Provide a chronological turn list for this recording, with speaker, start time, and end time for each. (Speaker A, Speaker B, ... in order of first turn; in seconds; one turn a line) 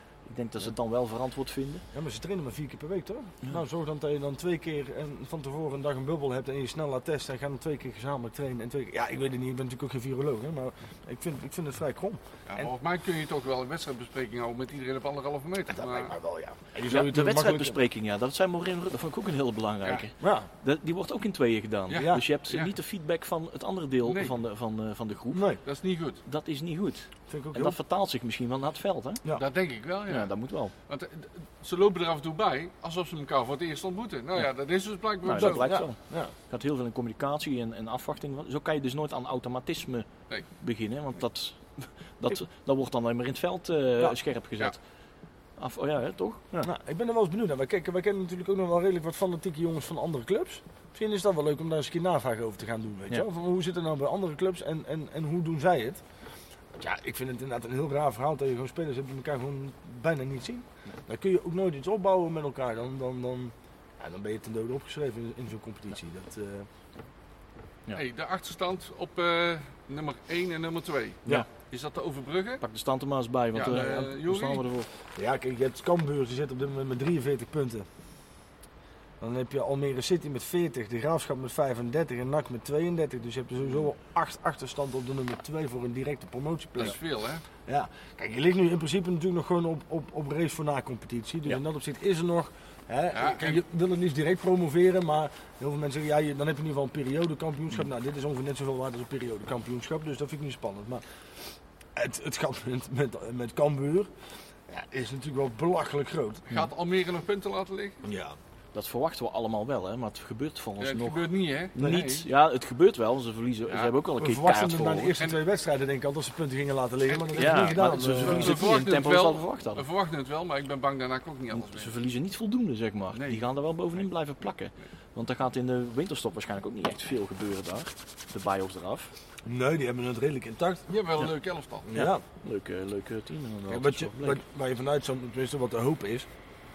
Speaker A: 0.2-1.8
Speaker B: 1.9-12.7
Speaker C: 12.5-16.1
Speaker B: 15.7-17.8
Speaker A: 16.9-25.5
Speaker B: 20.2-20.5
Speaker C: 21.9-22.7
Speaker B: 22.0-22.2
Speaker C: 24.0-24.3
Speaker B: 25.3-25.6
Speaker C: 25.6-26.2
Speaker A: 26.2-29.2
Speaker B: 27.3-27.8
Speaker C: 29.3-35.9
Speaker A: 30.1-30.7
Speaker A: 35.2-44.8
Speaker B: 35.3-36.3
Speaker A: 45.6-46.7
Speaker B: 46.6-56.0
Speaker B: 56.7-66.7
Speaker C: 67.9-72.6
Speaker A: 72.6-74.9
Speaker C: 73.5-74.6
Speaker B: 73.7-74.1
Speaker B: 75.1-77.9
Speaker B: 79.2-87.0
Speaker C: 86.8-87.4
Speaker B: 87.7-101.0
Speaker C: 93.1-93.6
Speaker B: 101.9-104.1
Speaker B: 104.7-106.4
Speaker C: 106.5-108.0
Speaker B: 108.0-108.4
Speaker A: 108.7-115.1
Speaker C: 110.8-112.2
Speaker B: 111.8-112.0
Speaker B: 114.2-118.5
Speaker C: 117.1-117.4
Speaker A: 117.4-119.8
Speaker C: 118.2-122.0
Speaker A: 121.5-129.1
Speaker C: 123.1-123.4
Speaker B: 129.4-130.8
Speaker C: 130.9-131.9
Speaker B: 131.9-132.2
Speaker A: 131.9-134.4
Speaker B: 133.7-136.3